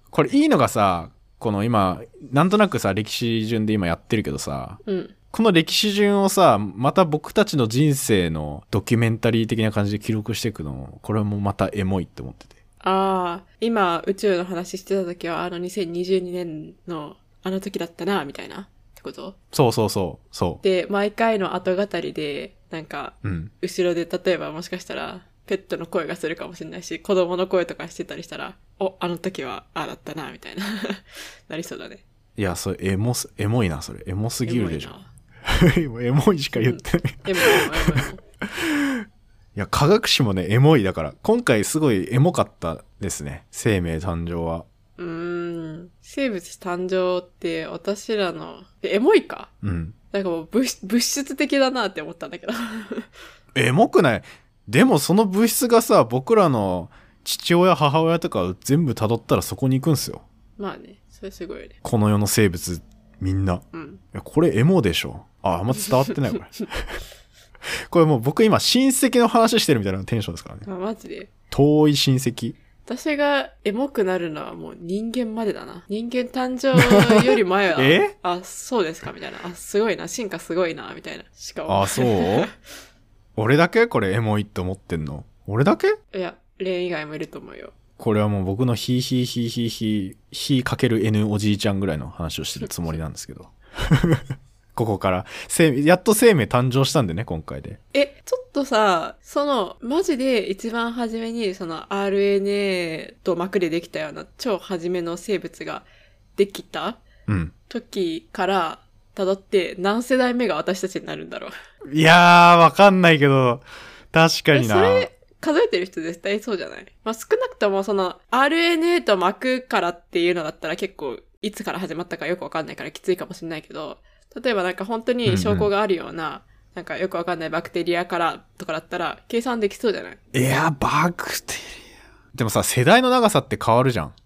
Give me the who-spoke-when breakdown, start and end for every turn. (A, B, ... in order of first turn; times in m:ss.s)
0:00.1-0:04.8 A
0:04.8-0:05.1 B
0:05.3-0:12.6 A
0:12.8-0:19.4 B
0:19.5-0:20.6 A
0:20.6-0:32.0 B
0:23.2-0:23.5 A
0:32.4-0:34.9 A
0:34.5-0:35.1 B
0:35.4-0:44.7 A
0:36.5-0:38.2 B
0:45.0-0:49.5 B
0:49.6-0:50.0 A
0:50.1-0:53.2 B
0:53.5-1:00.2 A
1:00.6-1:01.8 B
1:01.8-1:07.0 A
1:03.7-1:04.0 B
1:07.9-1:10.7 A
1:10.6-1:11.3 B
1:11.5-1:12.6 A
1:12.9-1:22.5 B
1:16.8-1:18.1 A
1:21.7-1:22.5 A
1:23.4-1:26.0 A
1:26.1-1:27.8 B
1:28.0-1:37.8 A
1:37.9-1:47.0 B
1:47.3-1:47.5 A
1:47.7-1:51.5 B
1:51.9-1:55.1 A
1:54.5-2:10.2 B
2:05.3-2:05.7 A
2:10.3-2:14.2 A